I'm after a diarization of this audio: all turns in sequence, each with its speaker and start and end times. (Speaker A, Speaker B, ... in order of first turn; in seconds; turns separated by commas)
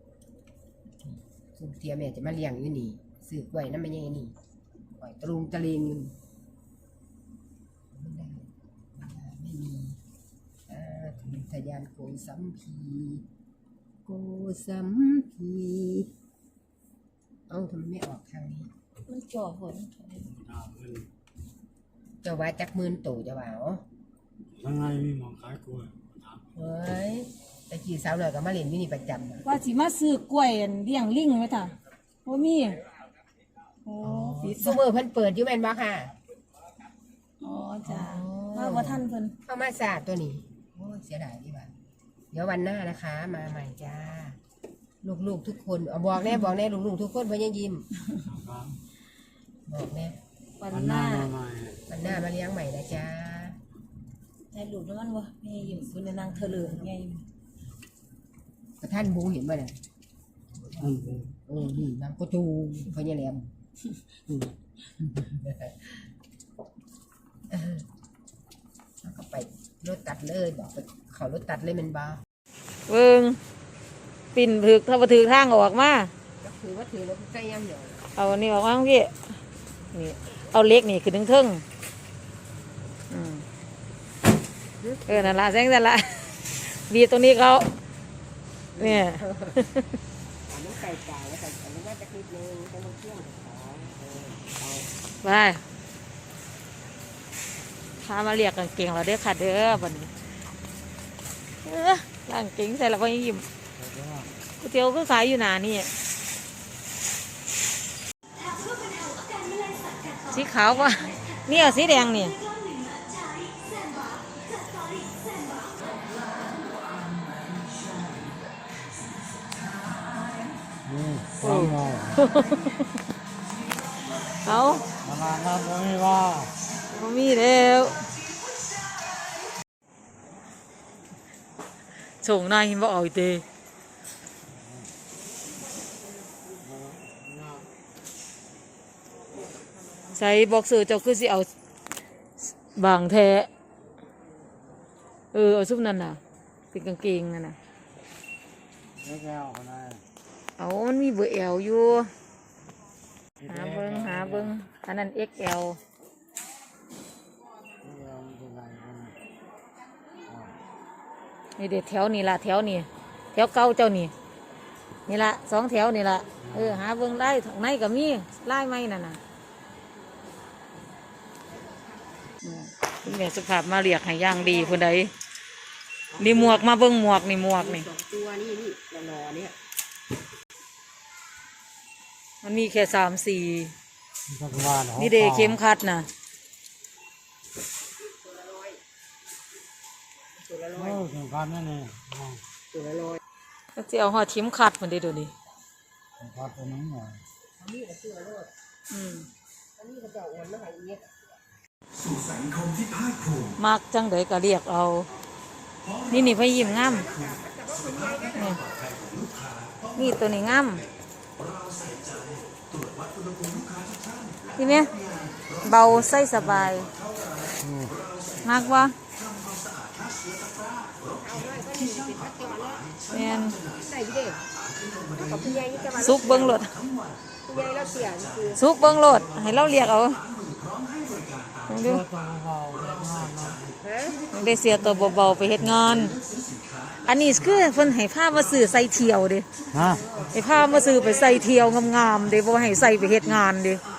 Speaker A: 1.0-4.3, Speaker A: 5.0-6.1, Speaker A: 7.9-10.0, Speaker A: 10.7-13.2, Speaker A: 14.1-16.1, Speaker A: 17.5-18.7, Speaker B: 19.1-20.3, Speaker C: 20.3-21.1, Speaker A: 22.2-23.8, Speaker C: 24.5-26.4, Speaker A: 26.5-29.4, Speaker B: 29.4-32.8, Speaker B: 33.8-34.8, Speaker C: 34.0-34.3, Speaker A: 34.3-36.1, Speaker B: 37.4-39.3, Speaker A: 37.8-41.7, Speaker A: 42.3-44.4, Speaker A: 45.0-47.9, Speaker C: 48.3-48.8, Speaker A: 49.7-50.2, Speaker B: 50.6-51.3, Speaker C: 50.7-51.8, Speaker A: 51.9-53.6, Speaker B: 54.5-57.2, Speaker A: 55.6-56.9, Speaker A: 58.8-59.8, Speaker A: 60.7-63.5, Speaker C: 60.8-61.3, Speaker A: 65.0-66.0, Speaker A: 67.5-67.8, Speaker A: 69.0-72.2, Speaker B: 72.9-73.4, Speaker B: 74.3-76.1, Speaker A: 76.4-78.1, Speaker B: 78.1-79.4, Speaker B: 79.9-81.6, Speaker B: 83.1-83.4, Speaker A: 84.8-85.4, Speaker B: 85.1-87.7, Speaker A: 88.7-89.6, Speaker B: 88.8-89.9, Speaker A: 90.5-94.9, Speaker B: 95.2-95.6, Speaker B: 98.0-100.1, Speaker B: 101.6-103.5, Speaker C: 103.8-104.3, Speaker B: 104.6-105.9, Speaker B: 110.3-112.4, Speaker C: 120.8-122.2, Speaker B: 121.4-122.9, Speaker B: 124.4-124.9, Speaker C: 125.0-126.5, Speaker B: 126.9-128.1, Speaker B: 132.2-133.4, Speaker C: 134.5-134.9, Speaker C: 136.6-137.7, Speaker B: 140.1-141.5, Speaker B: 142.6-143.5, Speaker B: 145.3-146.2, Speaker B: 146.7-147.6, Speaker C: 149.0-150.0, Speaker B: 150.6-152.1, Speaker C: 153.4-154.5, Speaker B: 153.4-155.8, Speaker C: 157.8-159.2, Speaker C: 160.2-160.5, Speaker B: 161.6-164.1, Speaker B: 165.1-169.2, Speaker C: 166.4-166.8, Speaker B: 172.4-175.1, Speaker A: 174.3-174.8, Speaker A: 176.1-176.7, Speaker B: 176.2-177.9, Speaker A: 177.5-179.6, Speaker B: 182.4-183.7, Speaker C: 184.3-185.6, Speaker B: 185.0-186.1, Speaker A: 188.1-188.8, Speaker A: 190.4-191.1, Speaker C: 190.8-192.4, Speaker A: 192.7-193.2, Speaker B: 193.8-195.3, Speaker C: 196.2-197.2, Speaker A: 197.6-198.5, Speaker B: 198.9-199.3, Speaker A: 199.8-201.4, Speaker B: 203.6-205.1, Speaker B: 206.1-207.1, Speaker A: 206.8-208.6, Speaker B: 209.9-210.8, Speaker B: 214.5-214.9, Speaker B: 215.6-216.9, Speaker C: 217.6-217.9, Speaker B: 218.4-218.9, Speaker A: 221.0-222.9, Speaker B: 223.1-223.6, Speaker A: 223.7-224.4, Speaker A: 225.1-226.7, Speaker B: 226.0-226.7, Speaker A: 227.4-228.6, Speaker B: 228.5-230.2, Speaker B: 231.7-232.0, Speaker C: 231.8-233.6, Speaker A: 233.8-234.2, Speaker B: 234.3-236.2, Speaker B: 237.0-239.4, Speaker C: 239.7-240.0, Speaker A: 239.8-241.5, Speaker B: 240.3-243.8